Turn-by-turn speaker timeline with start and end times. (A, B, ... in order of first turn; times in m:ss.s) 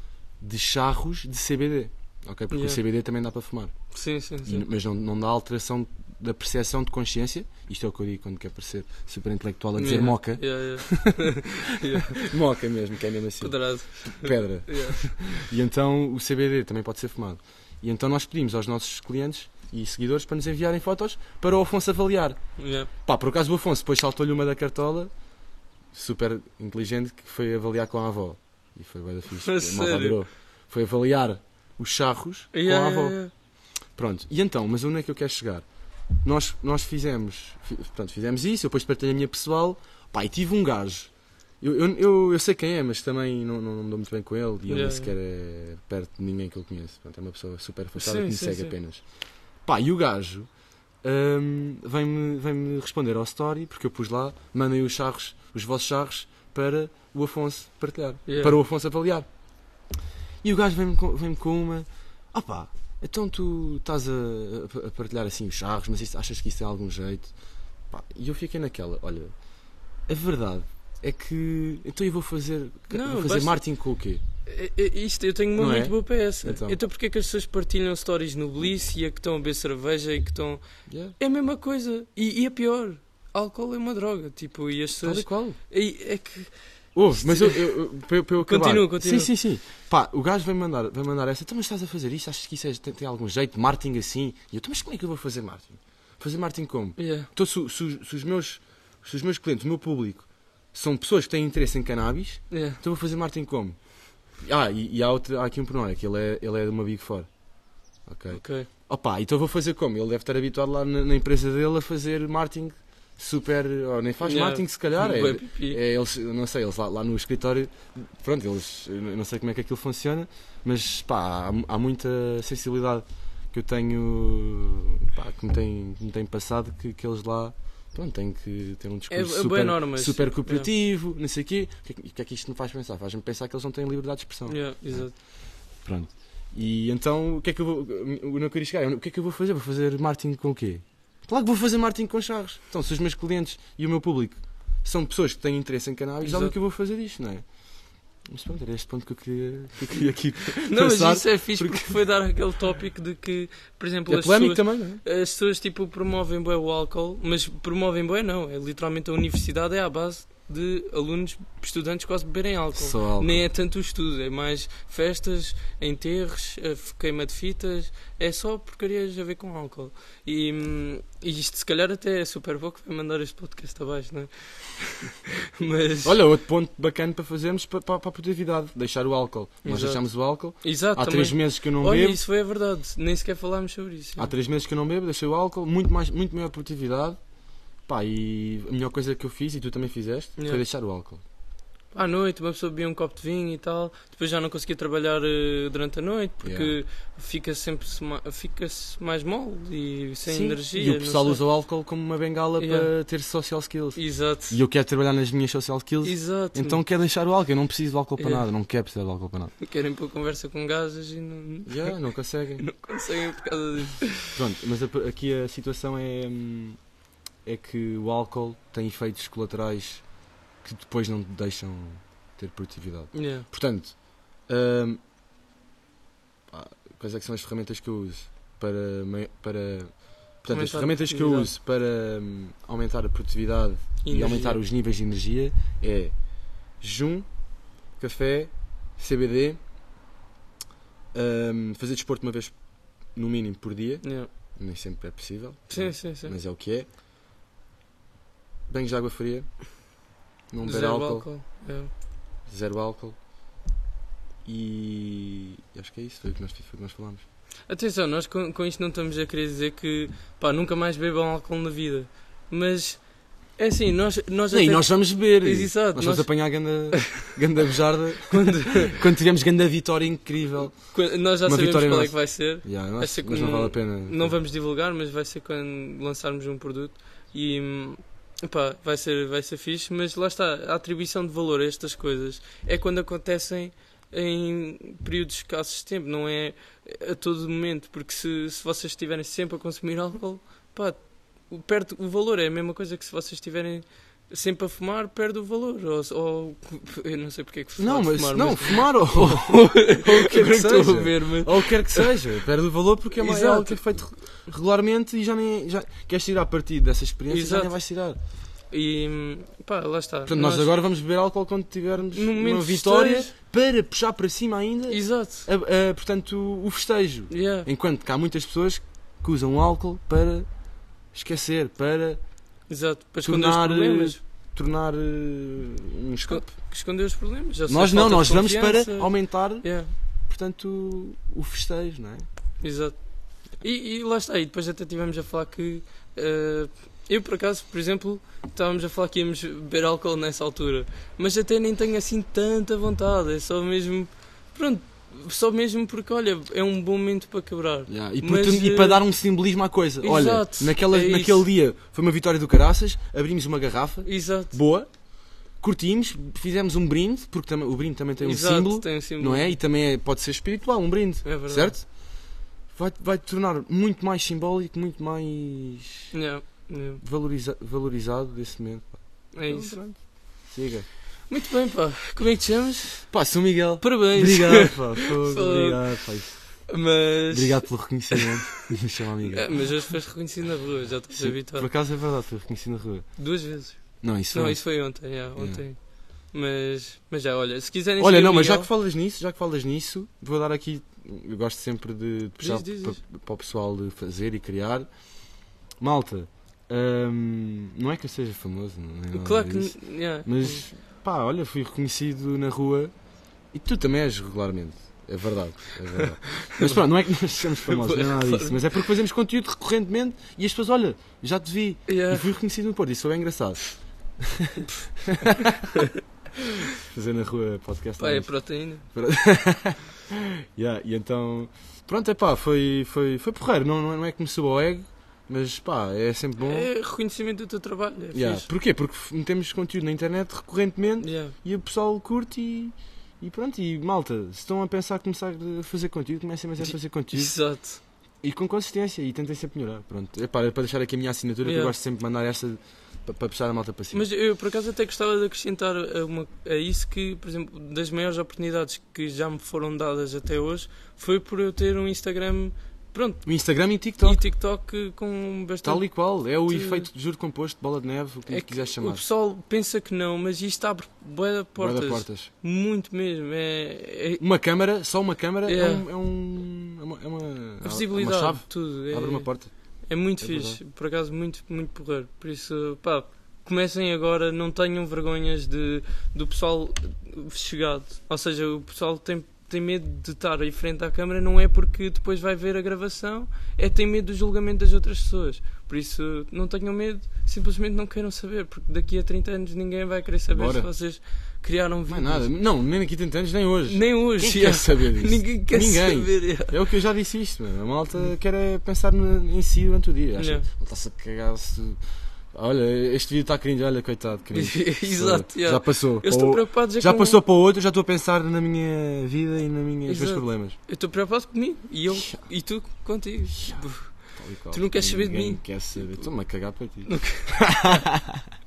0:00.4-0:03.8 A
0:02.5-0:02.8 B
0:03.9-0:04.6 B
0:04.4-0:11.1 A
0:09.8-0:12.2 B
0:11.9-0:22.4 A
0:13.4-0:15.2 B
0:22.6-0:22.9 B
0:23.0-0:25.1 A
0:25.9-0:33.2 A
0:29.4-0:30.2 B
0:32.5-0:33.3 B
0:34.0-0:35.7 A
0:36.2-0:49.0 A
0:44.7-0:45.1 B
0:48.0-0:48.7 B
0:49.6-0:50.5 A
0:51.0-0:59.3 A
0:58.3-0:58.6 B
1:00.4-1:07.3 A
1:07.9-1:09.4 A
1:10.1-1:14.2 A
1:12.9-1:13.6 B
1:14.5-1:20.6 B
1:15.6-1:16.8 A
1:20.9-1:21.2 A
1:21.2-1:27.8 B
1:25.0-1:25.6 A
1:27.0-1:43.8 A
1:28.4-1:29.3 B
1:37.0-1:37.3 B
1:42.5-1:42.8 B
1:44.4-1:47.3 A
1:48.1-2:15.2 A
1:48.3-1:48.7 B
1:54.2-1:55.8 B
2:09.1-2:10.7 B
2:14.5-2:15.2 B
2:15.8-2:27.6 A
2:26.2-2:26.5 B
2:28.2-2:32.0 A
2:30.6-2:56.1 B
2:34.1-2:35.0 A
2:42.8-2:43.5 A
2:56.0-3:02.2 A
2:59.6-3:04.3 B
3:04.2-3:07.2 A
3:07.9-3:11.2 A
3:11.9-3:21.4 B
3:16.4-3:16.8 A
3:20.3-3:29.5 A
3:22.6-3:22.9 B
3:24.0-3:24.6 B
3:26.0-3:26.8 B
3:28.2-3:28.4 B
3:29.6-3:32.0 B
3:31.7-3:32.7 A
3:32.6-3:34.4 B
3:34.4-3:36.8 A
3:37.4-3:40.1 A
3:40.6-3:45.0 A
3:43.1-3:43.5 B
3:46.5-3:56.1 A
3:50.5-3:51.5 B
3:54.0-3:54.6 B
3:56.8-3:57.3 A
3:58.0-3:59.6 A
4:01.1-4:06.9 A
4:04.0-4:04.3 B
4:05.7-4:06.4 B
4:08.7-4:09.6 A
4:10.5-4:11.3 A
4:10.6-4:11.9 B
4:12.5-4:13.2 A
4:14.4-4:17.2 A
4:17.7-4:26.7 B
4:24.5-4:34.4 A
4:28.3-4:29.0 B
4:30.9-5:02.1 B
4:57.8-5:08.2 A
5:03.1-5:04.0 B
5:07.3-5:07.7 B
5:08.7-5:10.7 B
5:10.3-5:20.5 A
5:12.1-5:13.3 B
5:14.9-5:15.5 B
5:17.3-5:17.7 B
5:21.1-5:22.2 A
5:22.7-5:24.2 B
5:23.2-5:26.5 A
5:26.3-5:29.9 B
5:27.7-5:29.7 A
5:30.3-5:32.3 A
5:32.6-5:33.0 B
5:33.5-5:49.0 B
5:47.9-5:54.9 A
5:50.0-5:51.4 B
5:54.0-5:54.6 B
5:55.5-6:02.0 A
5:58.2-5:59.5 B
6:01.2-6:01.8 B
6:02.7-6:06.1 A
6:06.1-6:07.0 B
6:07.0-6:10.9 A
6:09.3-6:09.8 B
6:11.3-6:13.2 B
6:13.1-6:16.6 A
6:13.8-6:15.8 B
6:16.7-6:18.7 B
6:17.3-6:19.9 A
6:19.3-6:21.7 B
6:21.1-6:23.1 A
6:23.2-6:28.7 B
6:24.0-6:25.6 A
6:28.0-6:34.9 A
6:32.4-6:33.0 B
6:35.8-6:42.9 A
6:39.1-6:40.7 B
6:43.5-7:06.7 A
6:46.0-6:46.8 B
6:47.6-6:48.6 B
6:51.9-6:52.3 B
6:55.3-6:55.9 B
6:58.0-6:58.9 B
7:06.4-7:08.5 B
7:08.1-7:17.4 A
7:11.0-7:11.4 B
7:16.6-7:17.8 B
7:18.2-7:24.1 A
7:21.4-7:21.7 B
7:23.9-7:33.3 B
7:33.2-7:34.2 A
7:34.0-7:35.9 B
7:35.6-7:39.0 A
7:36.5-7:36.9 B
7:38.3-7:44.2 B
7:41.6-7:42.3 A
7:44.2-7:49.5 A
7:45.5-7:45.9 B
7:47.6-7:49.3 B
7:49.9-8:12.3 B
7:50.2-7:50.6 A
8:10.3-8:10.7 A
8:11.9-8:21.8 A
8:13.7-8:16.6 B
8:20.2-8:20.5 B
8:22.3-8:30.6 A
8:24.3-8:27.2 B
8:29.9-8:36.1 B
8:31.9-8:32.2 A
8:33.3-8:38.2 A
8:36.9-8:37.5 B